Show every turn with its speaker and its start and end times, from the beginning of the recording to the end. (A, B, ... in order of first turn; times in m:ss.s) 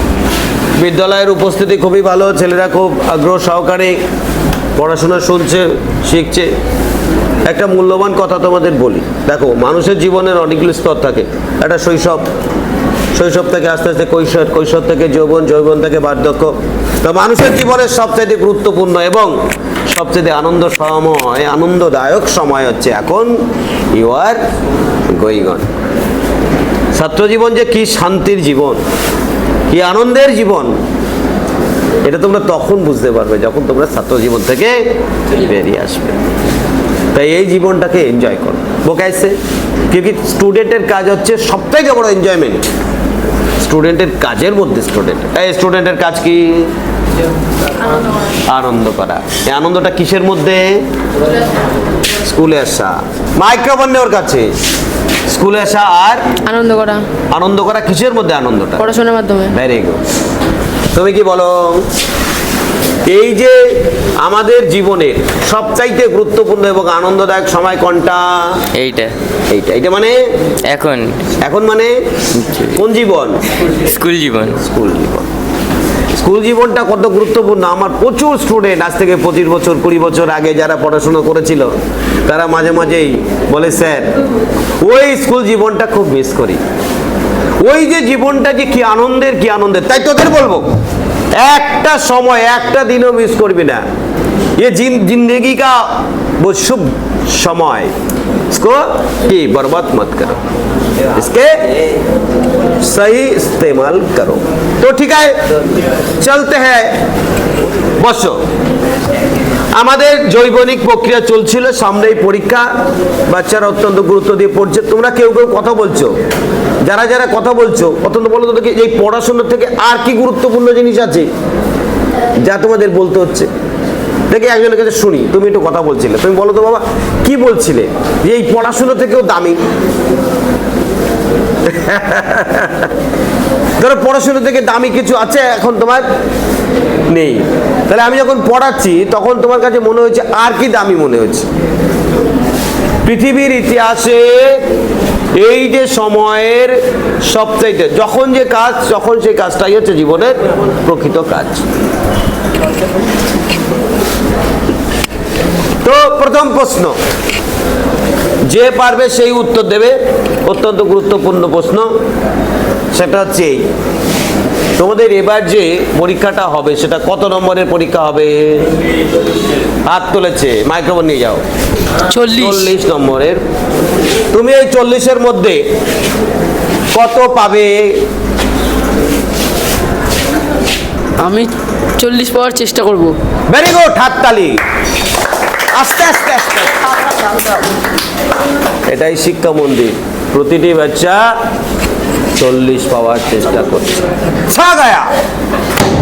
0:00.8-0:04.0 A
0:04.7-0:06.5 A
0:07.4-0:12.3 A
0:13.1-0:19.4 A
0:19.9-0:23.3 A
0:23.9-0:24.4 A
0:25.1-0:25.7 A
0:26.9-0:28.8 A
0:29.7-0:30.7 A
0:32.0-0:36.2 A
0:37.1-0:39.4 A
0:39.9-0:42.6 A
0:43.6-0:46.7 A
0:48.4-0:50.8 A
0:52.2-0:54.5 A
0:55.3-0:56.2 A
0:56.4-0:57.0 B
0:57.3-0:58.9 A
0:58.8-0:59.5 B
0:59.5-1:00.0 A
1:00.9-1:01.8 A
1:03.0-1:08.6 A
1:08.7-1:09.2 C
1:09.5-1:10.2 A
1:10.6-1:11.3 C
1:11.4-1:12.0 A
1:12.3-1:12.8 C
1:12.7-1:13.4 A
1:13.8-1:14.6 C
1:14.6-1:15.3 A
1:16.1-1:21.7 A
1:22.2-1:24.1 A
1:24.8-1:26.6 A
1:27.6-1:30.6 A
1:31.4-1:33.8 A
1:34.6-1:37.9 A
1:38.5-1:40.3 A
1:41.1-1:41.7 A
1:42.8-1:45.4 A
1:46.2-1:47.0 A
1:48.0-1:48.4 A
1:49.7-1:52.7 A
1:53.3-1:56.2 A
1:56.8-2:01.3 A
2:02.4-2:03.5 A
2:04.3-2:09.6 A
2:11.6-2:12.9 A
2:13.8-2:16.0 A
2:17.1-2:21.5 A
2:23.0-2:24.6 A
2:25.3-2:31.6 A
2:35.8-2:37.0 A
2:38.4-2:41.9 A
2:42.9-2:43.7 A
2:44.8-2:48.7 A
2:49.8-2:51.4 A
2:52.1-2:52.7 B
2:52.3-2:53.4 A
2:54.3-2:55.6 A
2:56.9-2:58.0 A
3:01.2-3:03.2 B
3:03.5-3:04.6 A
3:05.7-3:06.8 A
3:08.9-3:11.2 A
3:12.4-3:15.1 A